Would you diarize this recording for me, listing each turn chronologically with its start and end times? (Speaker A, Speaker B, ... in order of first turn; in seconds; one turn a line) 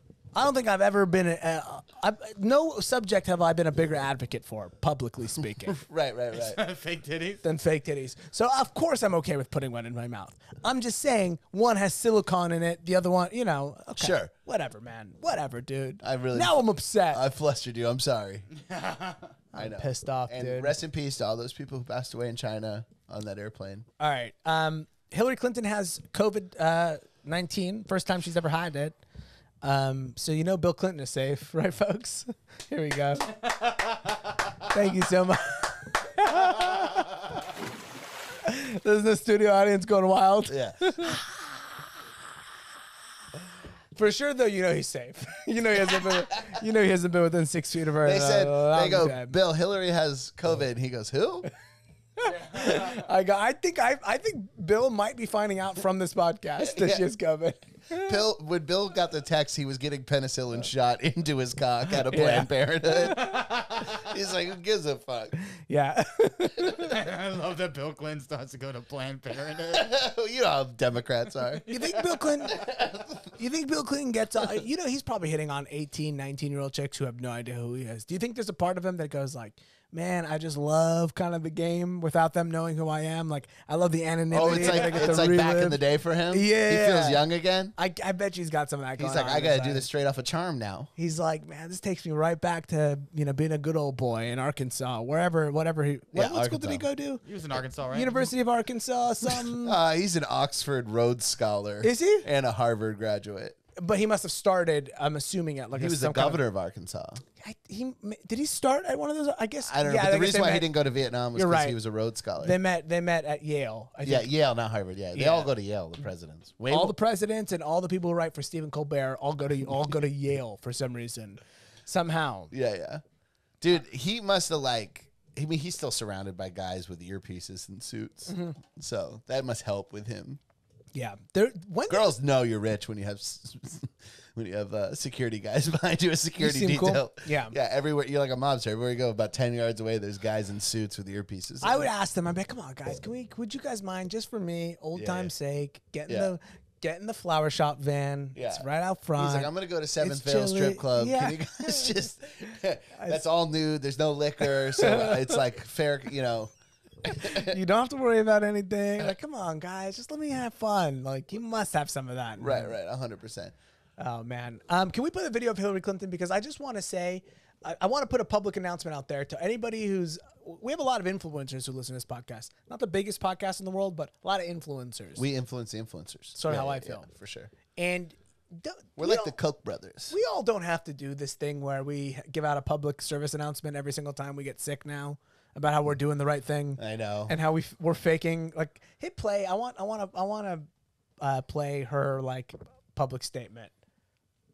Speaker A: 0.3-5.8
Speaker B: 5.7-6.6
Speaker C: 6.3-7.4
Speaker A: 7.4-17.2
Speaker B: 14.0-14.3
Speaker B: 16.0-18.5
Speaker C: 18.6-19.3
Speaker A: 19.5-20.7
Speaker B: 19.6-23.9
Speaker A: 24.0-29.0
Speaker A: 29.6-33.4
Speaker A: 34.7-37.0
Speaker A: 38.4-41.2
Speaker B: 40.5-41.2
Speaker A: 43.9-49.4
Speaker B: 48.0-51.5
Speaker A: 52.2-58.2
Speaker C: 52.6-53.0
Speaker B: 56.6-57.0
Speaker B: 57.9-65.3
Speaker A: 62.1-62.5
Speaker C: 63.2-63.9
Speaker A: 65.4-66.9
Speaker C: 66.8-69.9
Speaker B: 69.7-71.6
Speaker A: 71.7-72.5
Speaker B: 72.5-73.3
Speaker A: 73.4-87.2
Speaker B: 84.3-87.7
Speaker C: 84.6-85.0
Speaker A: 87.7-89.8
Speaker B: 89.0-90.9
Speaker A: 91.0-97.2
Speaker B: 96.1-96.8
Speaker C: 97.2-98.3
Speaker A: 97.9-99.8
Speaker B: 99.3-103.6
Speaker A: 101.8-102.3
Speaker A: 103.8-106.4
Speaker B: 105.8-107.2
Speaker A: 107.4-110.7
Speaker B: 109.7-112.6
Speaker A: 111.3-111.8
Speaker A: 112.4-114.3
Speaker B: 114.0-117.0
Speaker A: 115.1-115.5
Speaker A: 116.7-122.5
Speaker B: 122.5-123.0
Speaker B: 123.6-130.4
Speaker A: 128.3-128.6
Speaker A: 130.9-132.1
Speaker B: 131.9-141.9
Speaker A: 136.4-137.6
Speaker A: 141.6-149.5
Speaker B: 144.9-145.3
Speaker B: 146.1-146.3
Speaker B: 148.3-156.5
Speaker A: 150.0-151.4
Speaker A: 152.9-153.2
Speaker A: 154.6-155.4
Speaker B: 157.0-157.5
Speaker A: 157.1-162.7
Speaker B: 162.4-163.5
Speaker A: 164.0-175.2
Speaker B: 175.2-177.5
Speaker A: 176.3-177.0
Speaker A: 177.7-179.3
Speaker B: 179.0-180.2
Speaker A: 180.1-190.7
Speaker B: 186.8-187.3
Speaker A: 191.2-193.7